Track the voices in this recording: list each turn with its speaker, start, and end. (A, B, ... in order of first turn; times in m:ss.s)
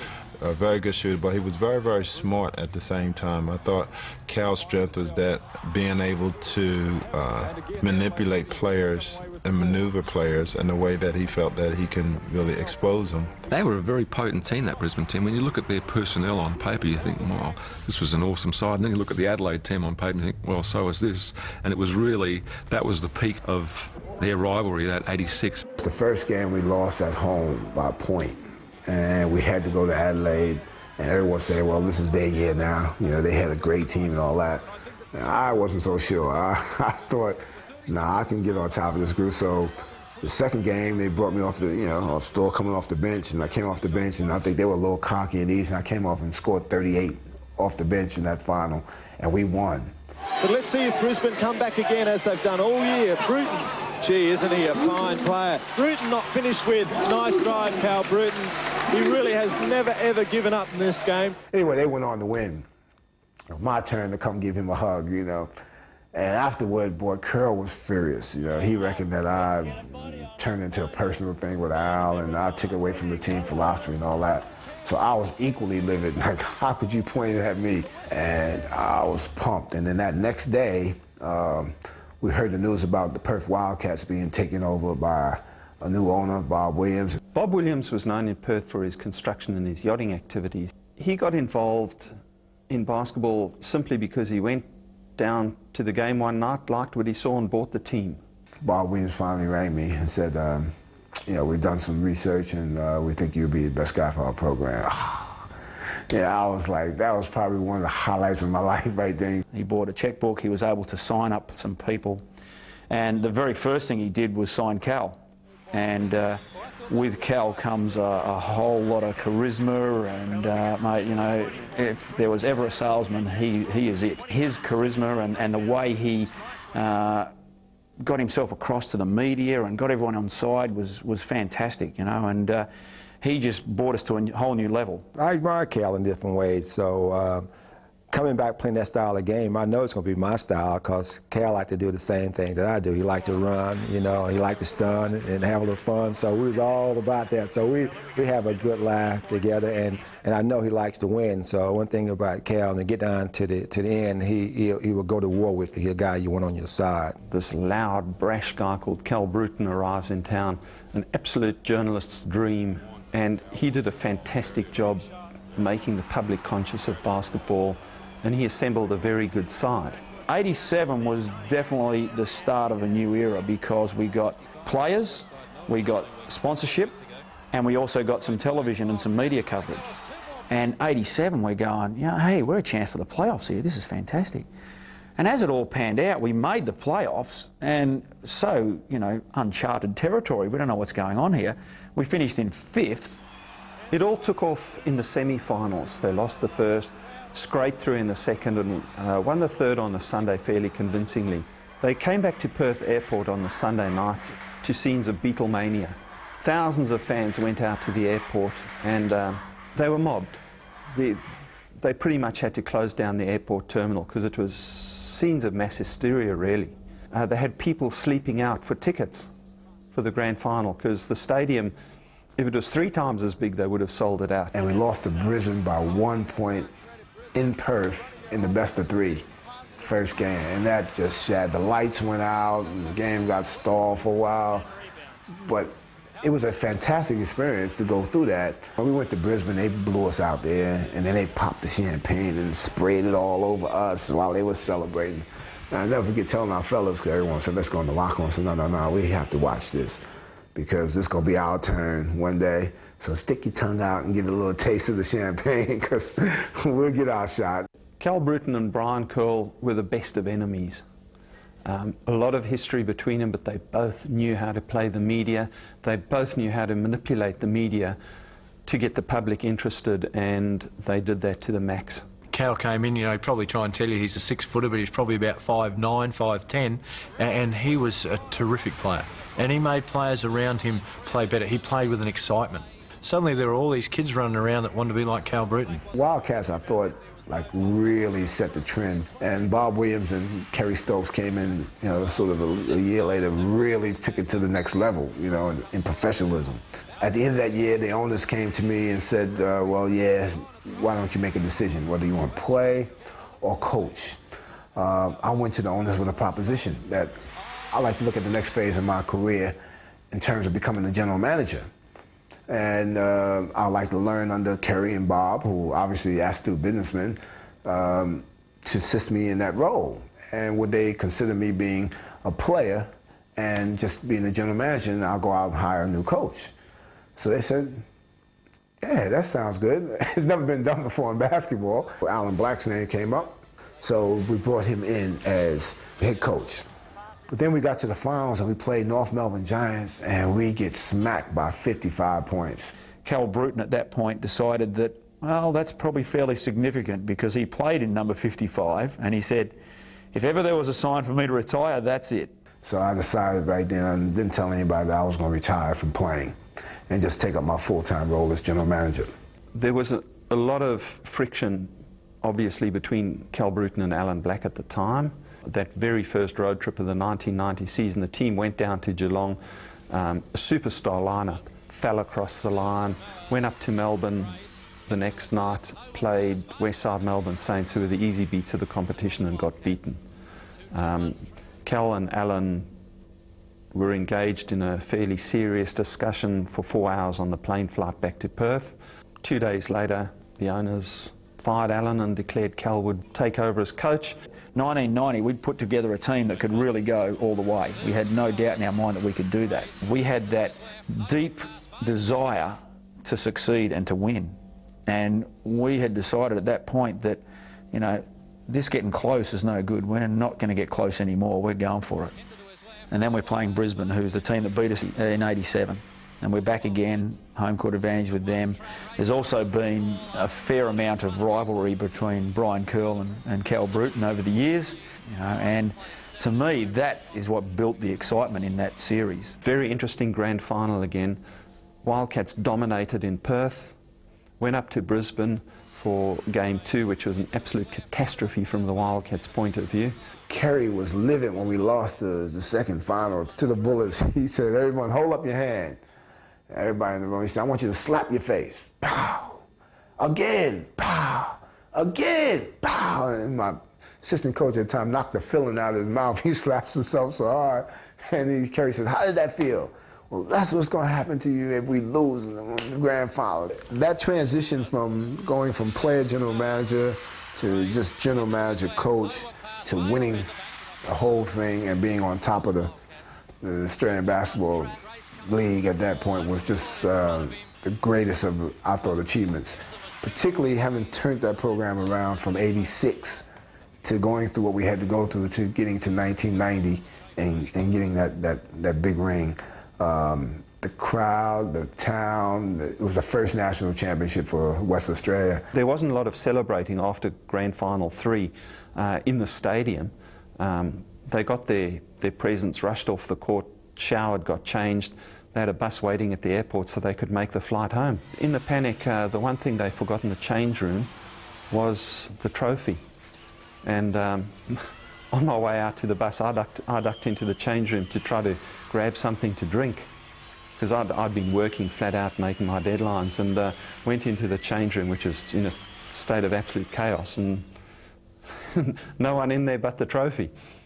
0:00.4-0:13.3 A
0:13.5-0:25.6 B
0:25.8-0:49.9 C
0:50.4-1:01.4 D
1:01.5-1:02.7 C
1:03.5-1:05.5 C
1:06.1-1:27.2 C
1:27.3-1:32.1 E
1:32.7-1:38.2 E
1:38.6-1:40.7 C
1:41.3-1:45.5 C
1:46.1-1:49.4 C
1:49.5-1:52.2 F
1:52.9-1:55.2 F
1:55.7-2:07.3 F
2:08.0-2:12.7 F
2:13.2-2:15.1 F
2:15.1-2:17.5 G
2:18.1-2:37.2 G
2:37.3-2:50.0 E
2:50.3-2:57.0 F
2:57.5-3:00.0 F
3:00.5-3:04.5 F
3:05.2-3:13.2 F
3:13.9-3:30.4 E
3:30.9-3:39.3 E
3:39.9-3:41.7 E
3:42.4-3:44.5 E
3:44.5-3:46.7 C
3:47.4-3:49.2 C
3:49.8-3:54.7 C
3:55.4-4:10.0 C
4:10.6-4:17.7 C
4:18.0-4:20.8 E
4:21.6-4:28.0 E
4:28.7-4:32.1 E
4:32.3-4:45.9 H
4:45.9-5:04.2 C
5:04.8-5:07.2 C
5:07.7-5:09.6 C
5:10.1-5:11.7 C
5:12.5-5:26.5 C
5:27.2-5:27.8 C
5:28.8-5:36.7 C
5:37.3-5:42.7 C
5:43.0-5:49.6 F
5:50.1-5:52.3 F
5:52.6-5:56.4 C
5:56.9-5:59.1 C
5:59.5-6:20.0 E
6:20.7-6:22.7 E
6:23.7-6:34.2 E
6:34.6-6:52.1 F
6:52.9-7:09.4 F
7:09.4-7:11.2 E
7:11.8-7:13.8 E
7:14.4-7:20.0 E
7:20.3-7:25.8 C
7:26.5-7:29.4 C
7:30.0-7:50.3 C
7:50.8-7:52.7 C
7:53.4-7:54.7 C
7:55.2-8:03.2 C
8:03.8-8:15.5 C
8:15.5-8:30.9 E
8:31.5-8:32.8 E
8:33.6-8:39.9 E
8:40.6-8:47.5 E
8:48.3-8:50.3 E